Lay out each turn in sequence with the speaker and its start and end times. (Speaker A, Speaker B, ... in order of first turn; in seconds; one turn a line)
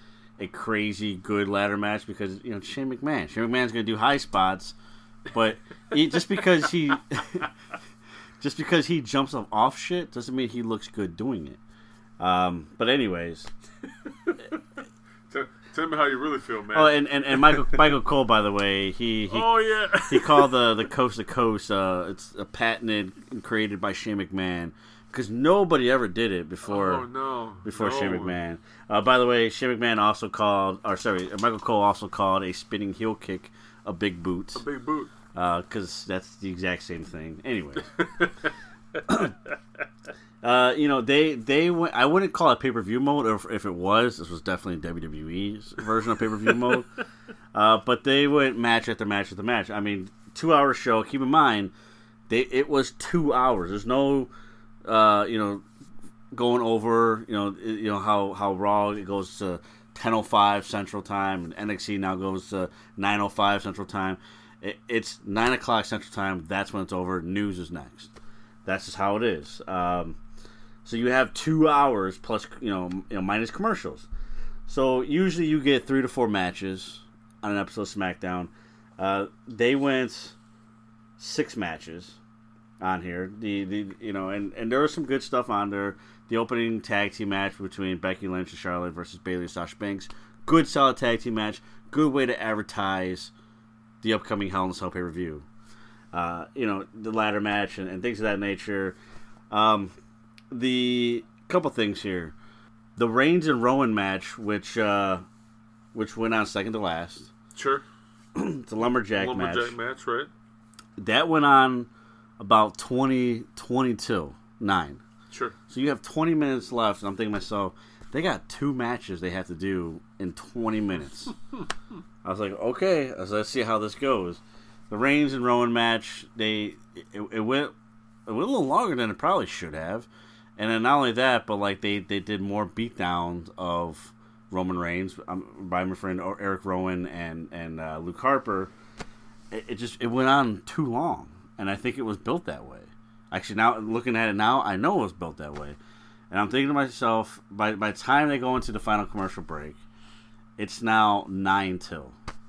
Speaker A: 0.4-4.8
Speaker A: 5.3-7.5
Speaker A: 8.4-11.6
Speaker A: 12.2-13.5
Speaker B: 14.1-14.6
Speaker B: 15.3-17.8
Speaker A: 16.7-19.5
Speaker B: 19.3-20.5
Speaker A: 20.1-27.1
Speaker B: 26.6-28.4
Speaker A: 27.6-34.6
Speaker B: 34.5-35.1
Speaker A: 35.3-38.0
Speaker B: 38.0-38.5
Speaker A: 39.1-39.3
Speaker A: 40.4-46.9
Speaker A: 47.5-51.7
Speaker A: 52.3-54.3
Speaker A: 54.8-55.6
Speaker A: 56.3-68.1
Speaker A: 68.6-70.2
Speaker A: 70.8-74.1
Speaker A: 74.7-80.3
Speaker A: 81.2-82.2
Speaker A: 82.8-93.3
Speaker A: 94.0-95.5
Speaker A: 96.1-99.0
Speaker A: 99.5-99.9
Speaker A: 100.5-102.3
Speaker A: 103.0-105.2
Speaker A: 105.9-107.3
Speaker B: 107.5-107.8
Speaker A: 108.3-109.8
Speaker B: 109.1-110.3
Speaker A: 111.0-115.0
Speaker B: 115.3-115.5
Speaker A: 115.7-121.3
Speaker A: 122.2-127.7
Speaker A: 128.2-138.7
Speaker A: 139.5-145.8
Speaker A: 146.3-149.8
Speaker A: 150.6-152.2